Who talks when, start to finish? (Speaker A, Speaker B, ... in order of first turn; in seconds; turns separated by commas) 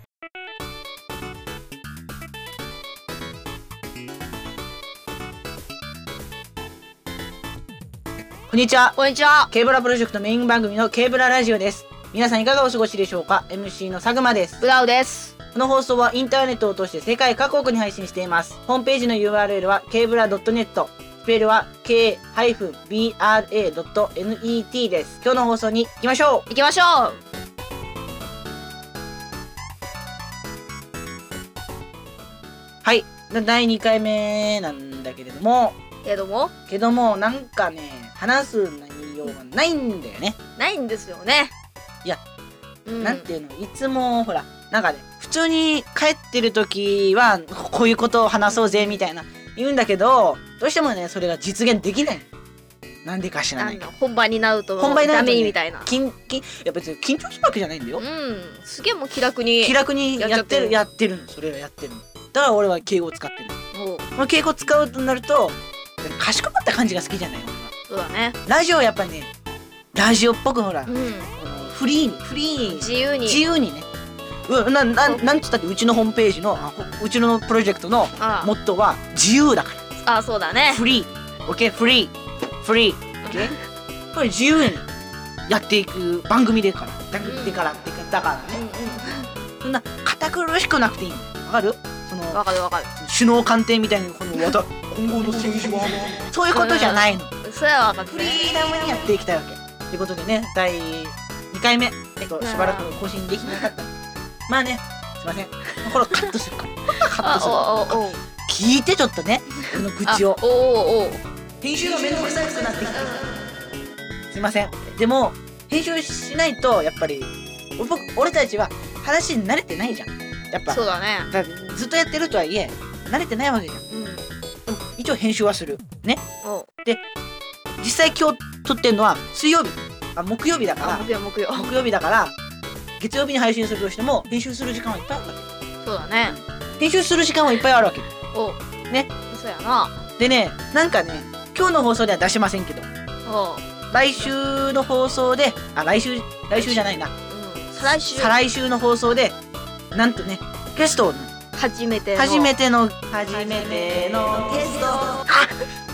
Speaker A: 8.5-9.0, Speaker B: 9.0-9.5, Speaker A: 9.5-14.6, Speaker B: 14.6-15.4, Speaker A: 15.5-26.4, Speaker B: 26.5-27.2, Speaker A: 32.8-35.8, Speaker B: 36.0-36.5, Speaker A: 36.7-40.4, Speaker B: 40.6-41.5, Speaker B: 42.9-43.3, Speaker A: 43.0-52.3, Speaker B: 48.5-49.0, Speaker A: 53.0-53.8, Speaker B: 53.6-55.9, Speaker A: 54.8-58.0, Speaker B: 58.0-60.8, Speaker A: 59.6-63.6, Speaker B: 63.7-64.1, Speaker A: 64.2-67.7, Speaker B: 67.9-68.4, Speaker A: 68.5-69.3, Speaker A: 70.0-73.9, Speaker B: 70.9-71.3, Speaker B: 72.7-73.4, Speaker A: 74.5-79.8, Speaker B: 78.2-78.5, Speaker B: 80.0-80.9, Speaker A: 80.7-83.5, Speaker B: 83.2-83.6, Speaker A: 84.1-84.9, Speaker A: 85.5-88.6, Speaker B: 87.2-87.7, Speaker B: 88.5-89.3, Speaker A: 89.6-92.4, Speaker B: 92.3-92.9, Speaker A: 93.0-97.3, Speaker B: 95.8-98.5, Speaker A: 98.1-103.9, Speaker B: 102.4-102.9, Speaker B: 103.5-103.7, Speaker A: 104.5-110.4, Speaker B: 107.2-108.2, Speaker B: 110.1-111.2, Speaker A: 111.6-113.4, Speaker B: 113.0-113.3, Speaker A: 114.3-123.8, Speaker B: 120.7-121.3, Speaker B: 123.9-124.2, Speaker A: 124.7-126.2, Speaker B: 126.4-126.7, Speaker A: 127.8-132.3, Speaker B: 130.8-131.7, Speaker A: 133.0-135.5, Speaker B: 135.8-136.4, Speaker A: 136.2-138.1, Speaker B: 138.3-138.6, Speaker B: 139.3-140.0, Speaker A: 140.2-142.9, Speaker B: 143.3-143.8, Speaker A: 143.9-147.1, Speaker B: 146.5-148.3, Speaker A: 147.8-149.4, Speaker A: 149.9-151.3, Speaker B: 151.6-152.5, Speaker A: 152.2-155.5, Speaker B: 155.1-155.6